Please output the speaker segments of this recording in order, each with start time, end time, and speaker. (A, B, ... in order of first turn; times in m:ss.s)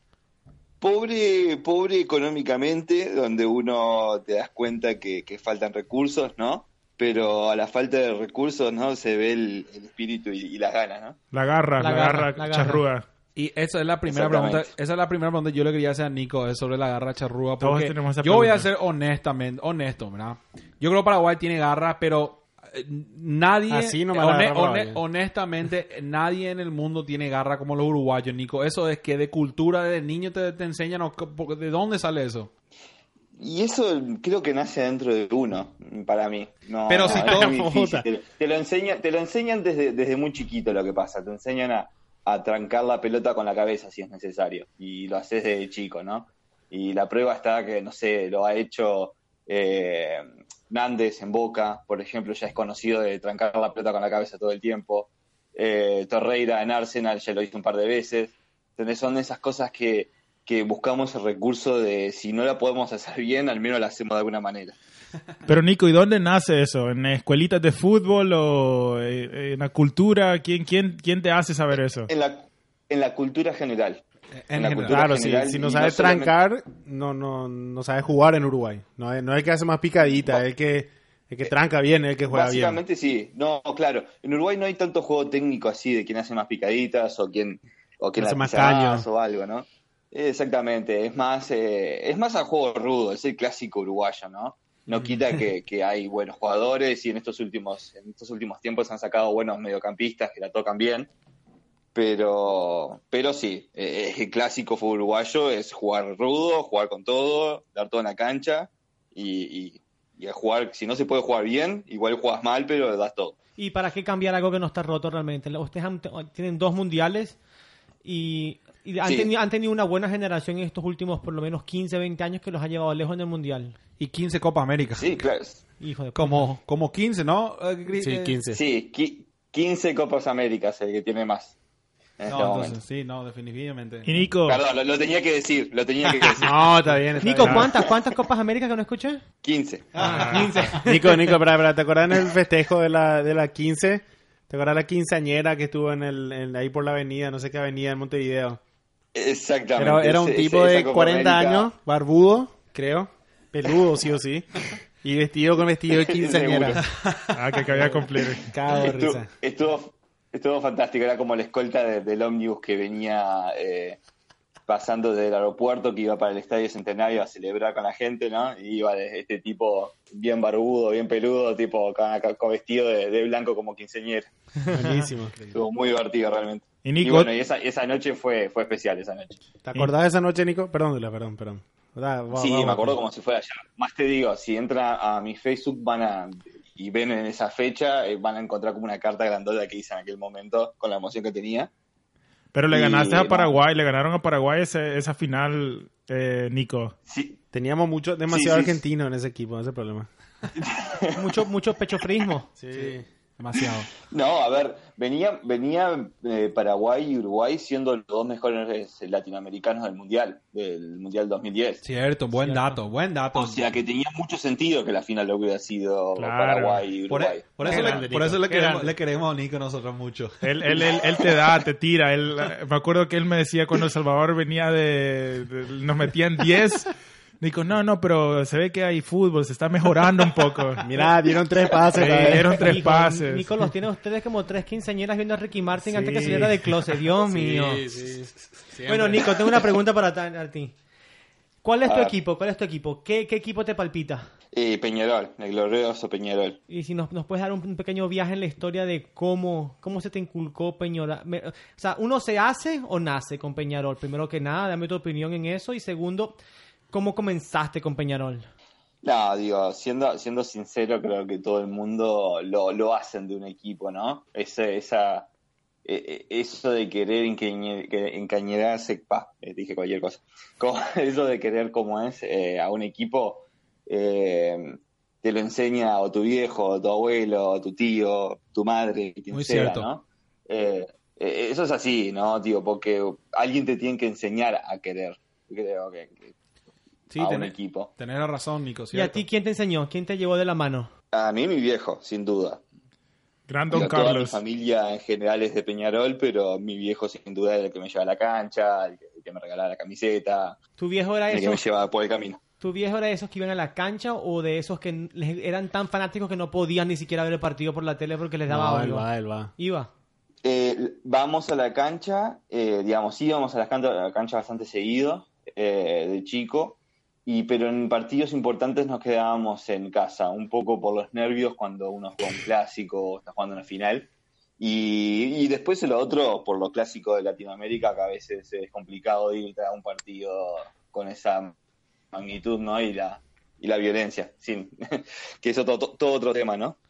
0:00.8-0:11.2 A
0:11.3-0:13.0 B
0:11.8-0:12.8 C
0:13.4-0:32.5 D
0:14.1-0:14.7 A
0:17.6-0:18.6 B
0:23.7-0:25.0 E
0:33.4-1:04.7 A
0:36.9-0:37.6 D
0:37.0-0:38.0 E
1:05.4-1:12.1 B
1:11.7-1:16.3 A
1:14.4-1:15.1 D
1:14.9-1:22.8 E
1:22.3-1:41.1 A
1:28.2-1:29.0 E
1:41.9-1:53.4 A
1:53.6-1:57.4 C
1:58.0-2:03.8 C
1:59.0-1:59.3 A
2:04.0-2:05.2 D
2:05.0-2:05.6 A
2:05.8-2:06.5 C
2:06.1-2:08.4 D
2:08.0-2:08.6 E
2:08.5-2:11.6 A
2:12.2-2:12.8 A
2:12.3-2:14.2 D
2:14.0-2:14.6 B
2:14.4-2:16.7 A
2:16.3-2:17.7 E
2:17.2-2:19.2 C
2:19.4-2:20.0 A
2:20.0-2:20.8 D
2:20.0-2:20.7 B
2:20.0-2:21.4 C
2:20.8-2:28.6 E
2:29.1-2:31.7 A
2:29.8-2:36.8 E
2:36.0-2:36.8 A
2:37.3-2:38.5 B
2:37.7-2:39.3 E
2:38.7-2:44.0 A
2:44.7-2:54.3 A
2:54.7-2:55.3 E
2:55.5-2:59.4 A
2:56.8-2:57.3 B
2:59.6-3:03.0 E
3:02.3-3:11.7 A
3:12.5-3:17.0 B
3:12.7-3:13.5 A
3:17.1-3:17.4 A
3:17.5-3:20.1 E
3:18.3-3:18.8 A
3:20.5-3:21.4 A
3:21.2-3:22.5 C
3:22.6-3:23.0 E
3:23.4-3:23.9 D
3:23.6-3:31.8 A
3:31.8-3:33.7 D
3:33.3-3:38.0 A
3:36.2-3:36.8 B
3:37.1-3:40.8 D
3:37.6-3:38.9 E
3:40.4-3:50.9 B
3:50.8-3:52.6 E
3:51.9-3:53.7 B
3:52.4-3:57.9 C
3:55.8-3:59.4 E
3:58.8-4:00.7 C
4:01.6-4:04.3 C
4:01.8-4:02.2 A
4:04.5-4:06.6 A
4:06.7-4:16.4 C
4:16.9-4:18.5 C
4:19.0-4:25.3 A
4:25.8-4:46.3 A
4:39.3-4:39.9 D
4:47.1-4:49.2 D
4:47.2-4:47.9 A
4:48.9-4:50.9 C
4:51.1-4:52.6 A
4:53.5-4:54.4 B
4:53.7-5:00.6 A
5:00.8-5:01.6 C
5:01.3-5:02.4 A
5:02.6-5:09.9 C
5:08.5-5:09.5 E
5:10.4-5:31.5 A
5:32.1-5:36.8 A